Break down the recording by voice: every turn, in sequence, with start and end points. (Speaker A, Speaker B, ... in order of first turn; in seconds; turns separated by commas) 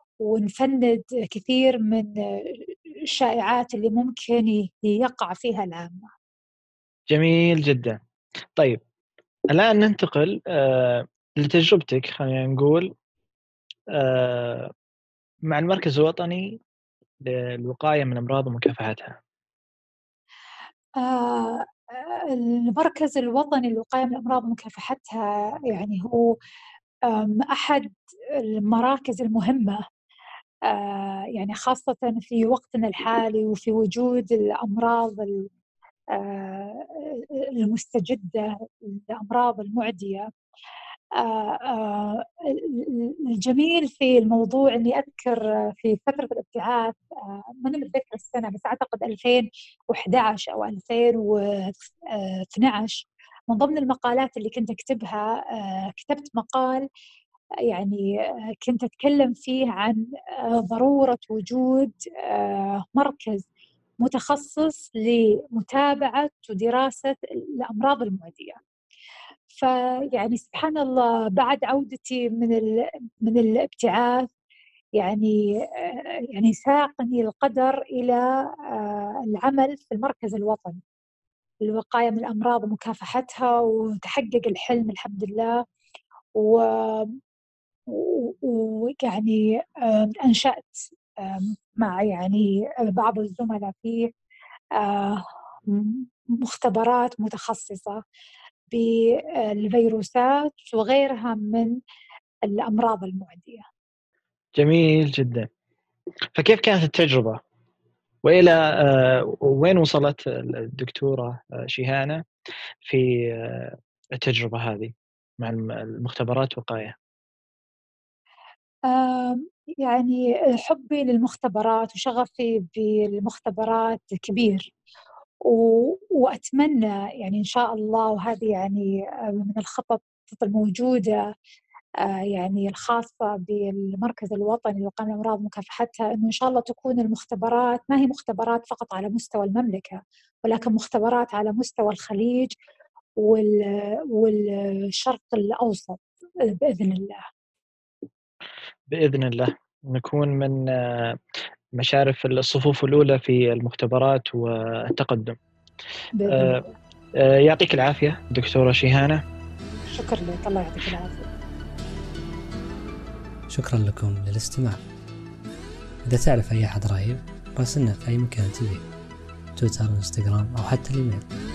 Speaker A: 0.2-2.1, Speaker A: 3.1-6.1, Speaker B: 7.1-8.0, Speaker B: 9.5-12.9, Speaker B: 13.9-14.7, Speaker B: 15.5-16.6, Speaker B: 17.2-19.2, Speaker A: 21.0-26.3, Speaker A: 27.1-29.8, Speaker A: 30.7-35.5, Speaker A: 36.1-40.3, Speaker A: 41.2-56.9, Speaker A: 57.7-58.0, Speaker A: 58.6-63.4, Speaker A: 64.0-68.6, Speaker A: 69.5-74.3, Speaker A: 75.0-80.8, Speaker A: 81.6-85.6, Speaker A: 86.4-87.2, Speaker A: 87.9-94.1, Speaker A: 94.8-98.0, Speaker A: 98.7-101.7, Speaker A: 102.5-103.6, Speaker B: 104.5-105.5, Speaker B: 106.3-107.4, Speaker B: 108.2-112.2, Speaker B: 112.8-116.9, Speaker A: 118.9-124.7, Speaker A: 125.4-131.2, Speaker A: 132.0-142.5, Speaker A: 143.2-147.2, Speaker B: 148.9-151.2, Speaker B: 151.8-155.4, Speaker A: 156.1-156.7, Speaker B: 156.3-156.6, Speaker B: 157.2-159.2, Speaker A: 159.9-161.3, Speaker C: 163.5-164.8, Speaker C: 166.1-168.9, Speaker C: 169.6-171.3